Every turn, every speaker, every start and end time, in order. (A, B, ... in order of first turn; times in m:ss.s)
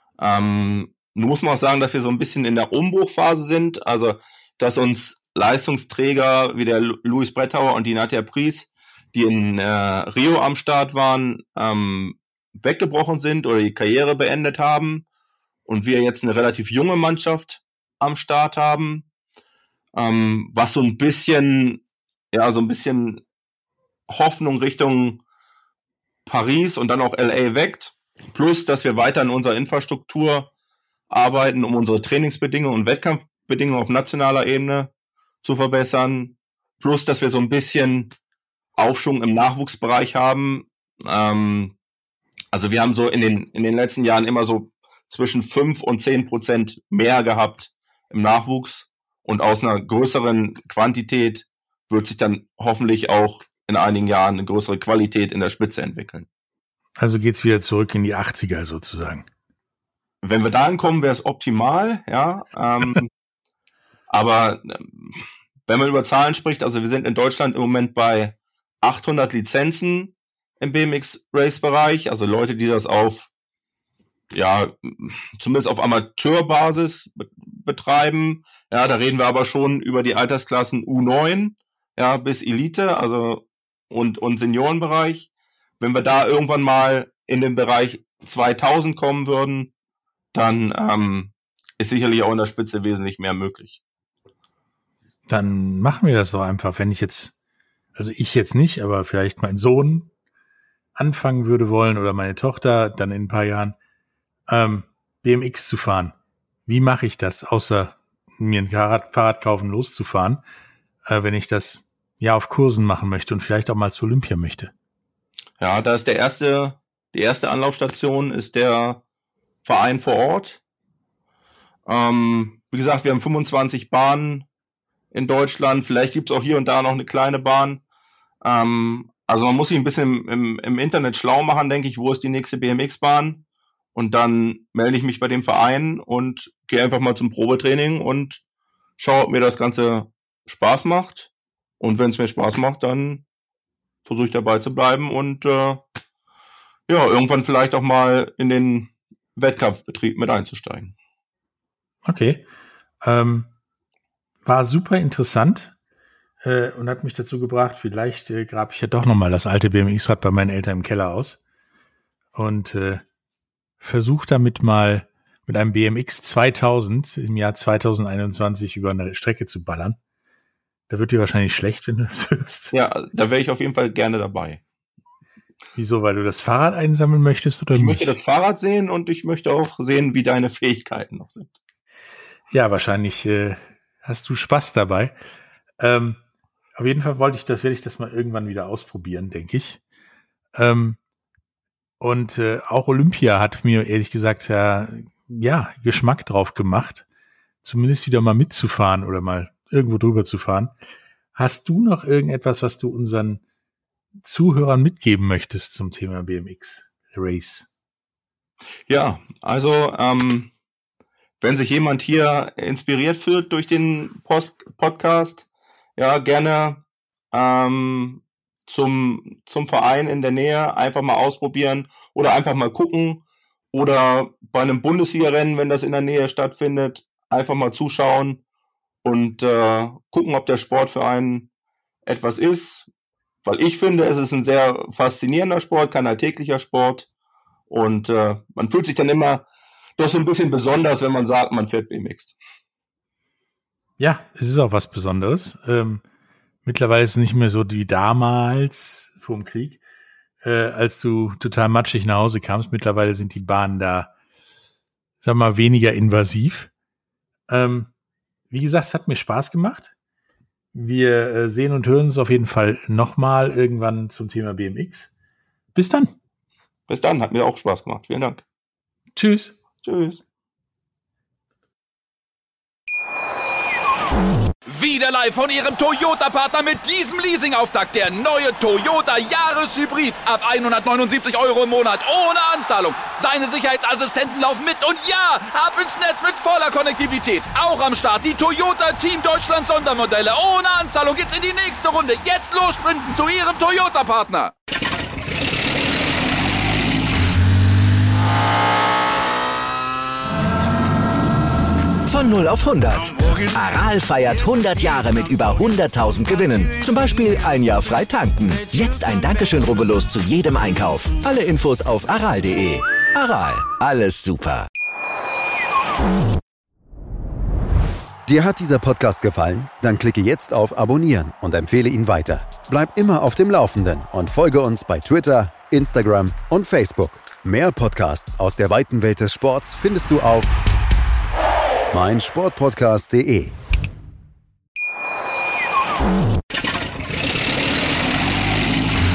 0:00.2-0:15.0 A
0:15.6-0:19.0 A
0:20.0-0:21.8 A
0:22.3-0:23.2 A
0:24.1-0:25.2 A
0:26.2-0:30.5 A
0:31.1-0:34.9 A
0:35.4-0:38.1 A
0:38.8-0:41.7 A
0:42.5-0:56.3 A
0:57.0-0:59.3 B
1:00.2-1:03.1 A
1:04.1-1:13.3 A
1:14.3-1:25.3 A
1:25.8-1:29.7 A
1:30.3-1:33.8 A
1:35.3-1:37.3 B
1:37.9-1:40.1 B
1:40.9-1:43.8 B
1:44.5-1:46.1 B
1:46.7-1:50.4 B
1:51.1-1:54.7 B
1:55.6-1:59.0 A
1:59.6-2:00.6 A
2:01.9-2:04.5 A
2:05.1-2:07.8 A
2:08.4-2:13.4 A
2:13.9-2:18.4 A
2:19.0-2:23.2 A
2:24.0-2:25.8 A
2:26.9-2:30.9 A
2:32.0-2:32.4 B
2:33.0-2:33.5 B
2:34.4-2:35.7 B
2:36.4-2:41.4 B
2:42.3-2:43.0 B
2:43.8-2:50.0 B
2:50.9-2:52.7 B
2:52.7-2:54.6 A
2:55.7-2:58.1 B
2:57.7-3:01.5 A
3:02.5-3:05.2 B
3:05.8-3:06.2 B
3:06.8-3:09.8 B
3:10.5-3:11.0 B
3:12.0-3:17.0 B
3:17.6-3:20.7 B
3:21.3-3:23.4 B
3:24.2-3:27.7 B
3:28.9-3:30.5 A
3:31.4-3:35.4 A
3:36.0-3:48.4 A
3:49.0-3:51.5 A
3:52.0-3:52.9 A
3:53.4-3:57.1 A
3:57.7-3:59.4 A
4:00.0-4:02.4 A
4:04.0-4:06.0 B
4:06.6-4:09.8 B
4:10.4-4:14.1 B
4:15.2-4:16.7 B
4:17.5-4:17.9 B
4:18.5-4:19.9 B
4:20.7-4:25.1 B
4:25.7-4:26.1 B
4:26.9-4:28.4 A
4:29.2-4:29.5 B
4:29.8-4:30.2 A
4:34.6-4:54.5 C
5:02.1-5:14.7 D
5:18.2-5:30.6 E
5:31.9-5:33.5 E